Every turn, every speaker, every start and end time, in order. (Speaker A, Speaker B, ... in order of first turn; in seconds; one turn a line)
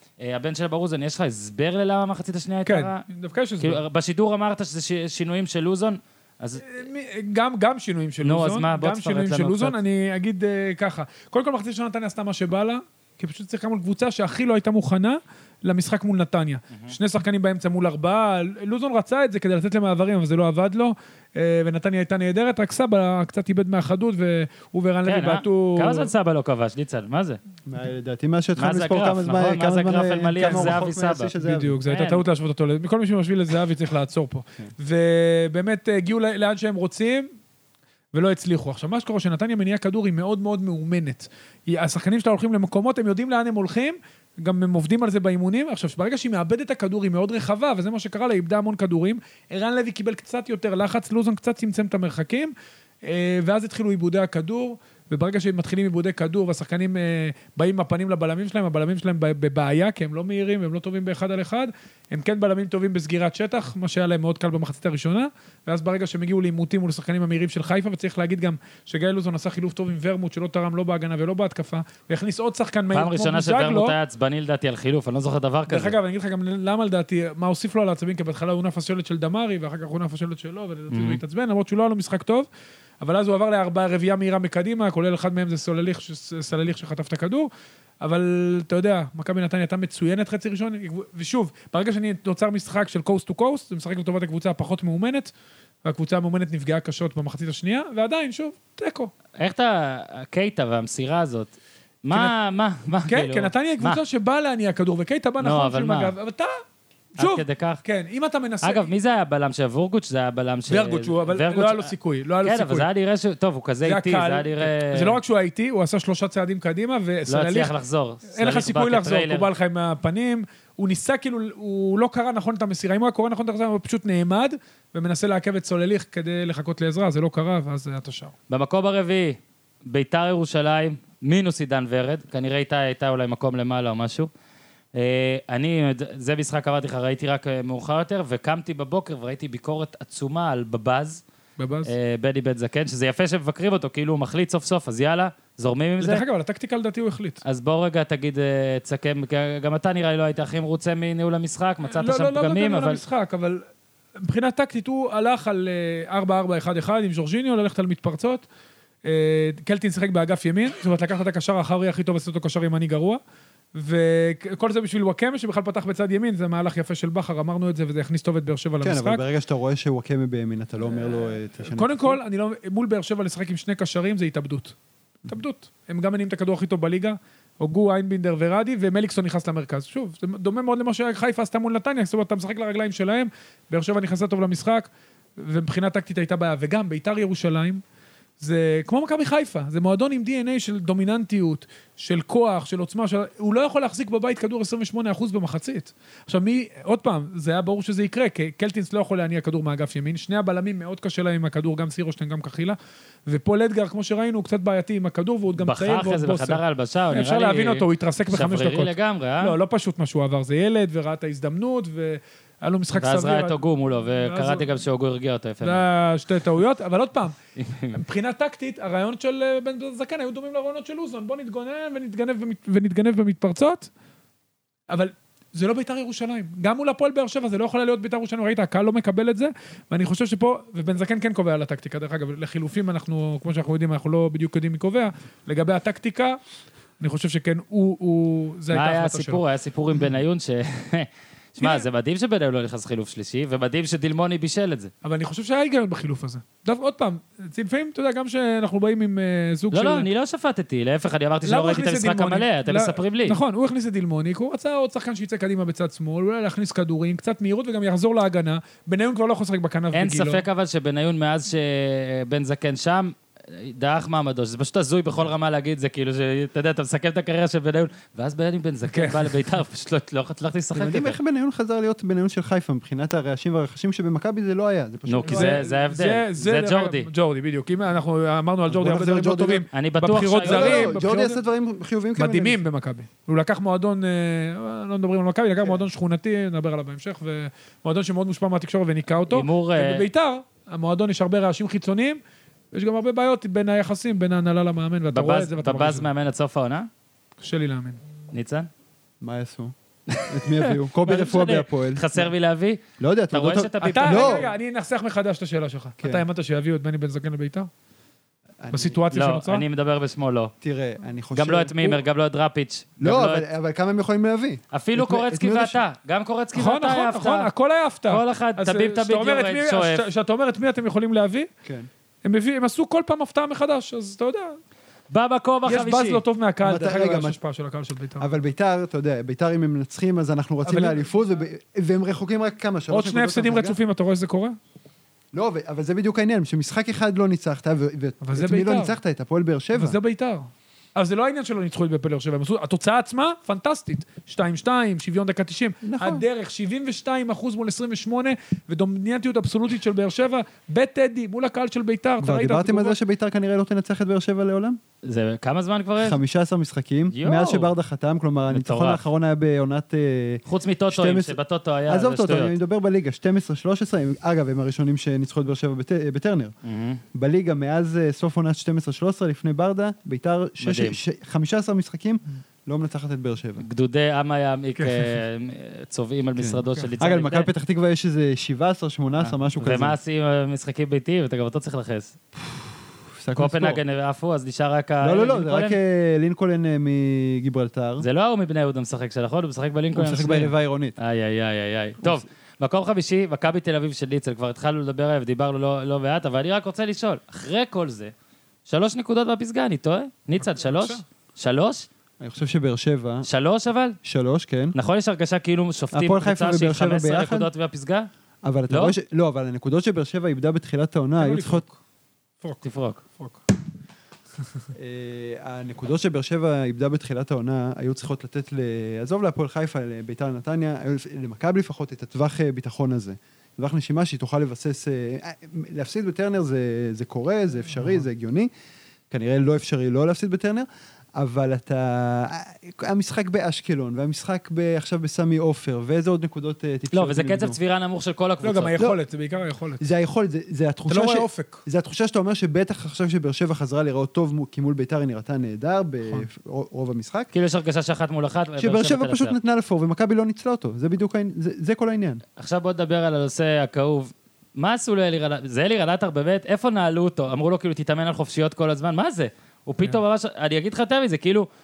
Speaker A: 0.2-3.0
Speaker B: 2.7-3.8
Speaker A: 3.6-6.7
Speaker B: 6.6-26.1
Speaker A: 8.2-9.8
Speaker A: 25.1-27.4
Speaker C: 27.7-31.8
Speaker A: 28.6-31.3
Speaker B: 31.4-37.3
Speaker A: 31.9-32.2
Speaker B: 38.1-74.0
Speaker A: 72.9-76.0
Speaker B: 75.7-82.5
Speaker A: 80.9-81.2
Speaker B: 83.0-87.5
Speaker B: 88.0-95.3
Speaker B: 95.8-99.1
Speaker A: 99.4-101.5
Speaker A: 102.0-104.0
Speaker B: 103.1-106.5
Speaker A: 105.4-106.1
Speaker B: 107.2-108.9
Speaker A: 107.2-107.8
Speaker A: 108.6-111.9
Speaker B: 110.7-112.9
Speaker A: 112.4-115.2
Speaker B: 113.8-117.7
Speaker A: 117.3-119.5
Speaker B: 118.3-128.3
Speaker A: 128.5-134.3
Speaker A: 134.9-141.2
Speaker B: 141.6-141.9
Speaker A: 141.8-146.2
Speaker B: 146.0-147.4
Speaker A: 147.4-153.0
Speaker B: 151.8-153.6
Speaker B: 154.2-158.4
Speaker B: 159.0-163.2
Speaker B: 163.8-169.2
Speaker C: 168.8-172.2
Speaker B: 171.7-187.8
Speaker B: 188.4-202.8
Speaker B: 203.3-214.7
Speaker A: 205.6-209.6
Speaker A: 212.9-215.8
Speaker B: 215.6-217.3
Speaker A: 217.6-218.0
Speaker B: 217.9-223.9
Speaker B: 224.9-236.4
Speaker B: 237.0-239.4
Speaker A: 238.7-244.9
Speaker B: 241.6-241.9
Speaker B: 245.0-250.1
Speaker A: 249.7-253.4
Speaker B: 251.4-260.4
Speaker A: 259.9-271.2
Speaker B: 268.9-269.3
Speaker C: 270.8-275.6
Speaker A: 275.1-277.1
Speaker B: 275.3-281.4
Speaker C: 278.7-279.6
Speaker A: 279.7-280.9
Speaker C: 280.4-282.6
Speaker B: 282.2-292.2
Speaker A: 289.3-290.1
Speaker B: 292.7-296.1
Speaker A: 295.1-296.9
Speaker B: 297.4-298.0
Speaker A: 298.3-298.7
Speaker C: 299.2-299.7
Speaker A: 300.1-304.5
Speaker C: 300.3-302.3
Speaker C: 303.0-304.5
Speaker B: 303.8-307.7
Speaker C: 308.6-309.0
Speaker B: 308.7-309.6
Speaker A: 309.1-310.5
Speaker C: 310.6-312.0
Speaker A: 311.3-313.4
Speaker C: 313.0-315.8
Speaker A: 314.7-317.5
Speaker B: 316.6-321.5
Speaker A: 318.1-320.1
Speaker C: 321.6-321.9
Speaker B: 322.2-324.6
Speaker A: 325.1-326.2
Speaker B: 325.7-328.3
Speaker C: 326.6-327.4
Speaker C: 328.2-333.8
Speaker B: 330.6-331.1
Speaker B: 332.9-334.6
Speaker C: 335.3-340.0
Speaker B: 338.2-339.0
Speaker B: 339.7-353.0
Speaker C: 345.8-346.2
Speaker C: 352.2-354.8
Speaker A: 355.0-356.2
Speaker C: 356.0-366.5
Speaker A: 357.1-357.7
Speaker A: 358.5-359.0
Speaker A: 360.5-362.6
Speaker A: 366.6-367.0
Speaker C: 367.1-373.6
Speaker A: 370.6-371.0
Speaker A: 373.6-377.5
Speaker B: 374.8-375.1
Speaker C: 376.4-380.0
Speaker A: 379.2-382.1
Speaker C: 382.4-383.8
Speaker A: 383.4-385.8
Speaker C: 385.0-388.1
Speaker A: 388.0-398.1
Speaker C: 389.9-391.0
Speaker A: 398.7-401.9
Speaker B: 400.4-401.0
Speaker C: 402.2-403.3
Speaker A: 403.2-404.0
Speaker C: 404.0-404.8
Speaker A: 404.7-408.1
Speaker C: 405.9-407.5
Speaker C: 408.4-411.6
Speaker A: 408.7-408.9
Speaker B: 411.2-411.8
Speaker A: 412.6-413.0
Speaker C: 414.7-428.5
Speaker C: 429.1-437.6
Speaker A: 436.9-438.8
Speaker B: 438.4-439.8
Speaker C: 439.8-447.3
Speaker B: 440.9-441.6
Speaker A: 447.3-449.4
Speaker C: 448.6-452.2
Speaker A: 452.4-461.5